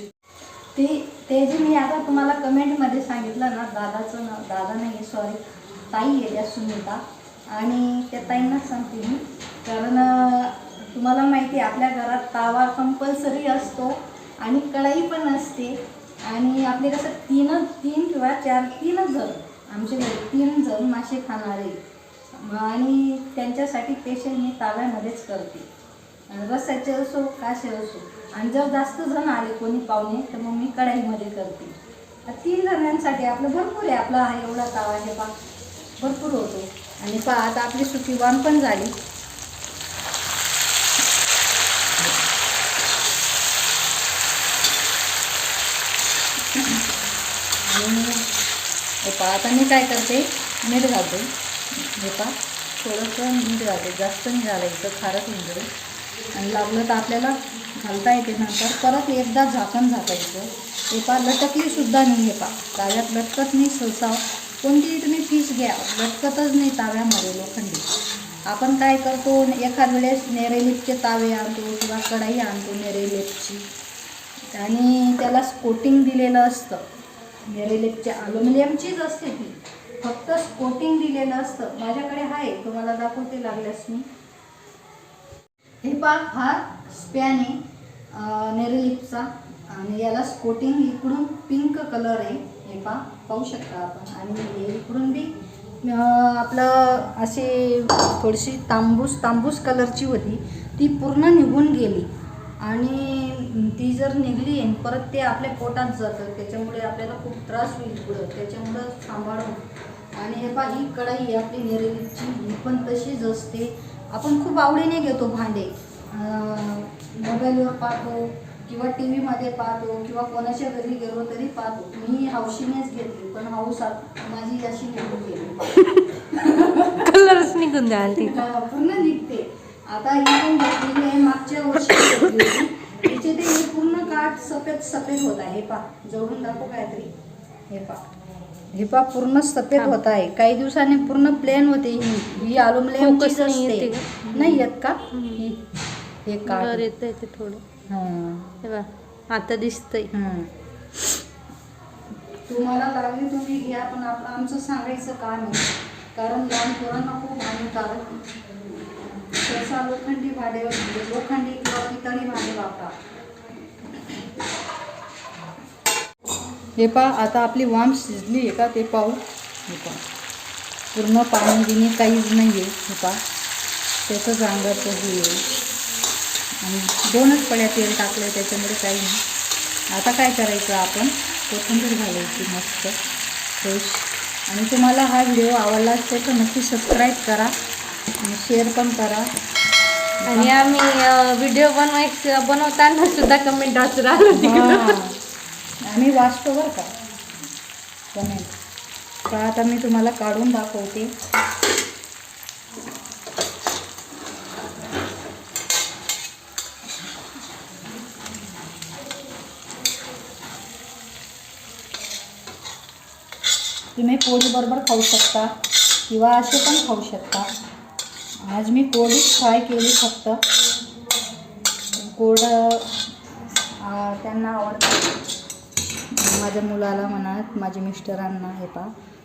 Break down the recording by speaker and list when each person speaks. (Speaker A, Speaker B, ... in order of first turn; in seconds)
Speaker A: 0.8-7.0, 7.5-21.8, 22.3-25.7, 26.3-31.8, 32.3-35.3, 36.0-38.9, 47.6-48.2, 49.0-55.7, 56.3-67.9, 68.5-73.7, 74.5-76.8, 77.5-84.1, 85.8-87.6, 88.1-95.3, 95.8-102.1, 102.6-109.6, 110.2-127.0, 128.0-137.1, 137.7-138.1, 138.7-145.6, 146.3-146.9, 147.9-148.5, 150.1-150.5, 152.5-158.2, 159.0-162.9, 166.8-170.0, 170.9-173.2, 174.1-175.5, 176.6-179.2, 179.9-183.0, 183.6-187.5, 188.2-189.3, 190.2-190.5, 194.3-195.2, 195.8-196.9, 198.1-198.5, 199.3-201.1, 213.9-215.5, 216.1-217.5, 218.4-220.4, 221.9-222.9, 223.8-225.2, 226.1-228.9
Speaker B: 125.8-128.5, 132.1-132.4, 143.0-145.4, 146.5-147.6, 148.6-150.1, 190.3-195.0